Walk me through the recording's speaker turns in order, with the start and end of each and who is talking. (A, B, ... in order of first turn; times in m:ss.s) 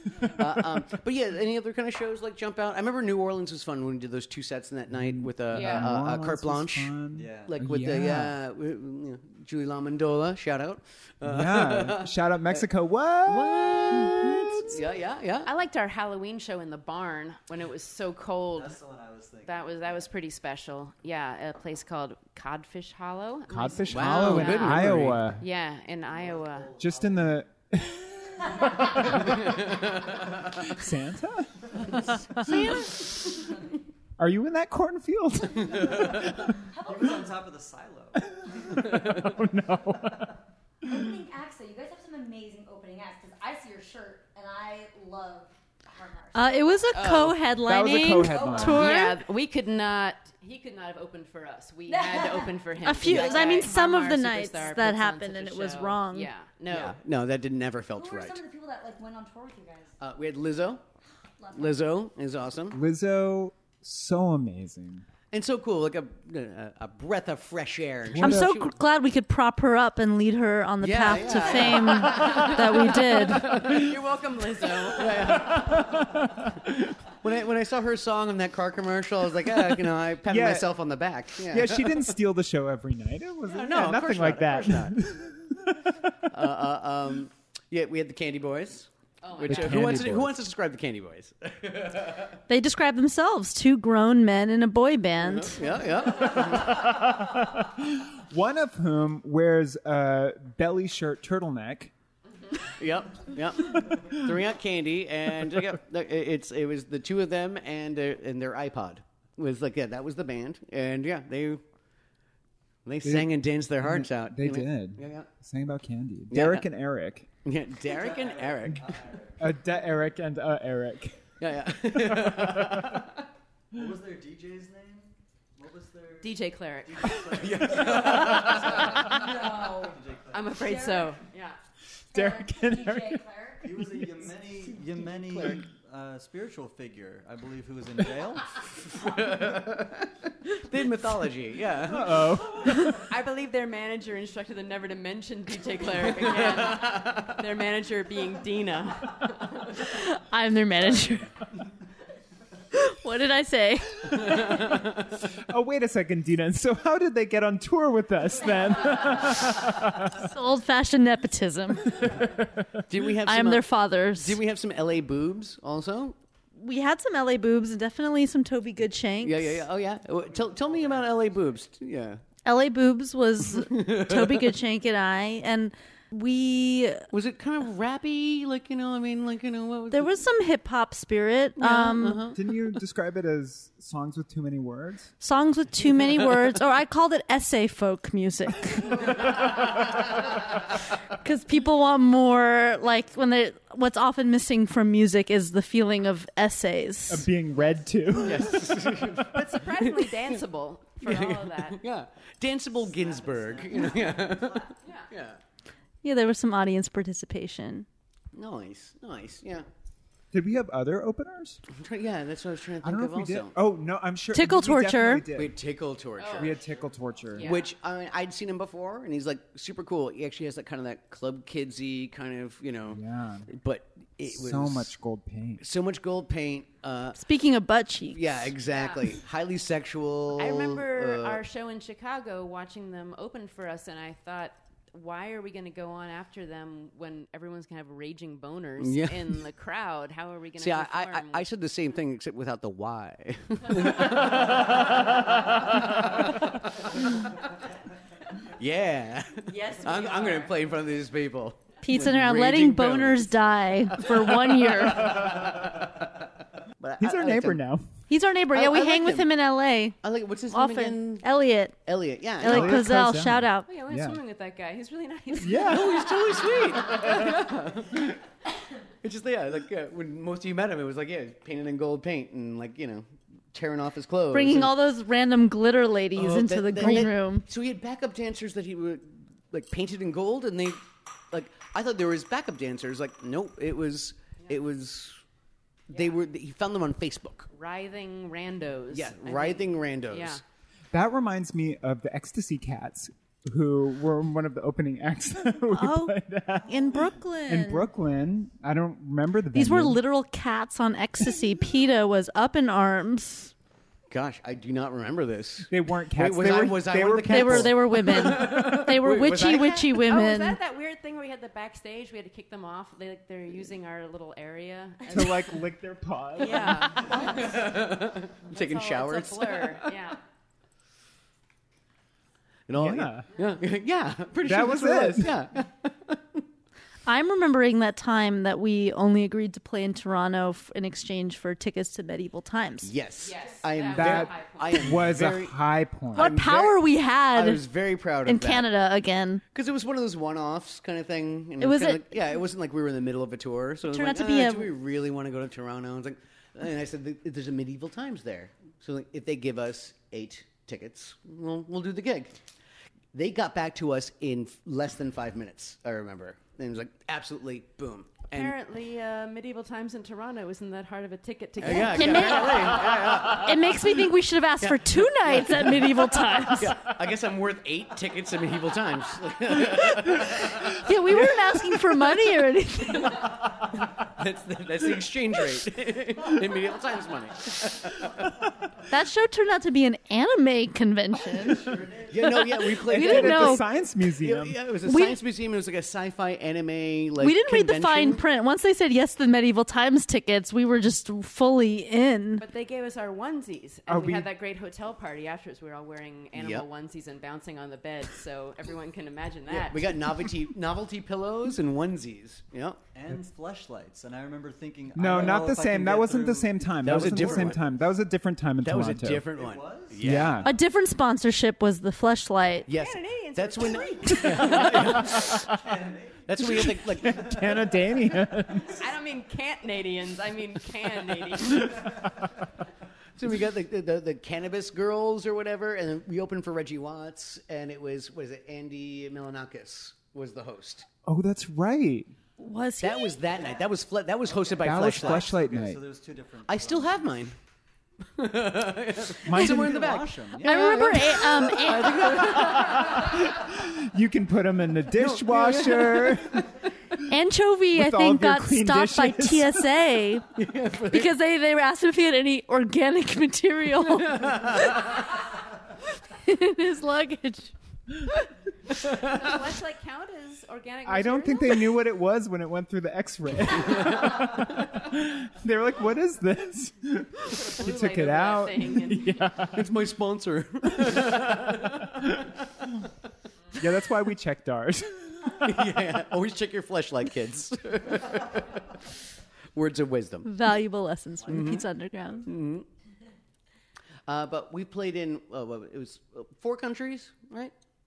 0:00.2-0:06.9 A
0:04.9-0:08.4 B
0:05.5-0:05.9 C
0:07.1-0:07.5 D
0:07.4-0:12.6 A
0:11.2-0:14.8 B
0:13.2-0:15.5 A
0:15.4-0:18.8 C
0:18.5-0:20.0 D
0:19.4-0:26.7 C
0:23.5-0:25.4 B
0:23.9-0:25.3 A
0:26.1-0:27.4 D
0:26.8-0:29.5 B
0:29.3-0:30.4 A
0:30.4-0:32.9 B
0:32.4-0:33.0 E
0:34.2-0:36.6 B
0:36.6-0:37.4 F
0:36.8-0:38.7 D
0:38.3-0:40.4 B
0:40.8-0:46.9 F
0:46.3-0:49.2 E
0:46.9-0:47.4 C
0:47.6-0:48.9 B
0:48.2-0:48.9 F
0:48.6-0:57.0 C
0:51.9-0:52.7 F
0:52.8-0:56.3 E
0:53.0-0:53.4 A
0:56.7-0:58.4 A
0:57.9-1:00.0 F
1:00.0-1:00.8 A
1:01.4-1:01.8 F
1:01.5-1:02.8 A
1:02.7-1:05.0 B
1:05.3-1:08.7 A
1:08.1-1:08.5 B
1:08.2-1:13.6 E
1:10.8-1:14.0 A
1:13.4-1:15.3 C
1:14.8-1:16.1 A
1:15.5-1:16.5 B
1:17.1-1:22.1 A
1:20.3-1:20.7 B
1:21.4-1:26.2 B
1:23.5-1:25.0 A
1:26.3-1:32.4 A
1:29.2-1:30.1 C
1:29.4-1:30.4 B
1:32.5-1:35.6 E
1:35.2-1:36.9 A
1:36.2-1:41.9 B
1:42.8-1:51.6 A
1:52.8-1:55.3 A
1:53.0-1:57.3 B
1:56.3-1:56.6 A
1:57.4-1:59.0 A
1:57.8-1:59.4 D
1:59.4-2:01.2 B
2:01.4-2:03.0 A
2:01.9-2:03.0 B
2:03.7-2:10.7 D
2:06.2-2:07.2 C
2:07.3-2:09.2 A
2:09.1-2:10.0 F
2:10.3-2:11.6 C
2:10.6-2:11.2 F
2:12.1-2:13.2 B
2:12.1-2:14.7 F
2:13.6-2:18.6 D
2:15.2-2:15.6 A
2:18.9-2:22.3 A
2:21.8-2:23.0 B
2:22.9-2:29.8 C
2:26.0-2:27.3 A
2:29.8-2:31.3 E
2:32.7-2:34.6 E
2:34.4-2:34.8 A
2:35.5-2:40.2 B
2:40.2-2:42.2 E
2:42.0-2:42.8 B
2:42.9-2:46.2 A
2:43.2-2:44.4 E
2:46.6-2:49.6 E
2:49.2-2:52.2 A
2:52.4-2:57.0 E
2:53.6-2:54.5 A
2:57.1-3:00.2 A
2:59.9-3:02.3 E
3:01.6-3:02.4 A
3:02.3-3:05.1 B
3:05.2-3:09.3 E
3:11.2-3:17.3 E
3:17.1-3:19.0 B
3:18.2-3:20.3 A
3:19.3-3:21.8 C
3:21.0-3:25.4 A
3:22.8-3:24.7 D
3:24.8-3:25.1 C
3:26.0-3:27.8 E
3:28.3-3:29.7 A
3:30.3-3:31.6 B
3:31.7-3:33.5 A
3:32.8-3:35.6 B
3:34.3-3:35.3 E
3:35.3-3:36.6 A
3:36.2-3:36.6 C
3:36.4-3:37.5 B
3:37.3-3:37.7 C
3:37.4-3:44.9 A
3:42.9-3:43.5 B
3:44.3-3:45.6 B
3:45.6-3:47.2 A
3:47.2-3:48.5 E
3:48.1-3:51.4 A
3:48.7-3:49.1 C
3:50.4-4:01.4 C
3:58.8-3:59.4 A
4:00.6-4:06.8 A
4:08.6-4:16.0 A
4:09.5-4:10.5 C
4:11.8-4:15.3 E
4:16.8-4:17.6 A
4:17.0-4:17.9 B
4:18.1-4:20.0 E
4:18.5-4:19.3 A
4:20.0-4:21.2 A
4:20.5-4:21.8 E
4:21.8-4:22.9 A
4:22.4-4:23.7 E
4:22.4-4:24.2 B
4:23.6-4:26.1 C
4:25.4-4:26.0 B
4:25.6-4:28.2 A
4:27.0-4:27.3 C
4:29.0-4:34.8 A
4:34.3-4:37.4 E
4:36.1-4:45.2 A
4:45.9-4:47.5 A
4:45.9-4:46.2 C
4:47.5-4:50.4 C
4:48.9-4:50.4 A
4:50.9-4:56.8 B
4:55.7-4:56.2 E
4:56.7-4:57.9 E
4:57.5-5:00.0 B
4:59.5-5:03.5 E
5:04.1-5:10.0 A
5:05.7-5:07.8 B
5:07.2-5:10.6 E
5:10.0-5:15.5 C
5:15.1-5:17.0 B
5:16.4-5:17.6 C
5:17.0-5:19.9 A
5:17.0-5:17.3 F
5:18.5-5:20.2 C
5:22.7-5:26.4 A
5:22.8-5:23.3 B
5:24.4-5:25.4 B
5:27.0-5:32.9 E
5:32.8-5:35.6 A
5:33.2-5:34.9 C
5:33.9-5:36.6 B
5:36.1-5:37.6 E
5:36.2-5:36.7 A
5:37.3-5:38.7 A
5:38.2-5:39.4 E
5:39.5-5:52.4 A
5:41.6-5:42.1 E
5:43.9-5:44.7 E
5:53.1-5:58.5 A
5:58.3-6:02.9 C
6:01.6-6:03.9 A
6:01.7-6:06.8 E
6:04.6-6:10.8 A
6:10.8-6:13.2 E
6:13.8-6:18.3 A
6:18.9-6:21.7 E
6:21.6-6:22.2 D
6:22.0-6:28.2 A
6:22.7-6:23.6 E
6:22.8-6:24.6 B
6:24.8-6:25.2 E
6:27.2-6:32.4 E
6:32.4-6:40.0 C
6:33.9-6:34.3 B
6:36.3-6:36.6 A
6:39.5-6:42.8 A
6:42.9-6:47.6 D
6:44.9-6:49.2 B
6:45.2-6:45.4 A
6:46.8-6:47.7 A
6:48.6-6:50.5 A
6:49.3-6:50.3 D
6:50.0-6:50.5 B
6:50.4-6:52.7 E
6:52.7-6:55.5 A
6:52.7-6:55.1 C
6:54.1-6:54.4 E
6:55.4-6:56.4 D
6:56.3-6:57.5 A
6:56.6-6:58.7 B
6:57.2-6:57.6 D
6:58.6-7:01.8 C
7:03.2-7:10.9 A
7:11.0-7:12.1 B
7:12.4-7:13.2 E
7:12.8-7:15.4 A
7:14.6-7:15.8 B
7:14.7-7:17.1 D
7:16.5-7:17.3 A
7:18.2-7:23.2 A
7:19.2-7:19.9 B
7:19.3-7:20.9 D
7:20.4-7:22.2 E
7:22.2-7:26.4 B
7:24.9-7:26.4 A
7:27.1-7:30.2 E
7:27.7-7:29.6 B
7:30.3-7:31.2 A
7:30.9-7:34.9 E
7:33.8-7:35.0 A
7:36.0-7:37.5 E
7:38.9-7:41.7 C
7:40.8-7:49.7 B
7:47.4-7:49.2 C
7:49.5-7:52.0 A
7:50.7-7:51.2 B
7:53.6-7:55.6 B
7:55.4-7:58.7 A
7:59.5-8:00.3 A
8:00.2-8:02.3 E
8:01.2-8:01.7 A
8:02.2-8:02.6 A
8:04.1-8:07.5 A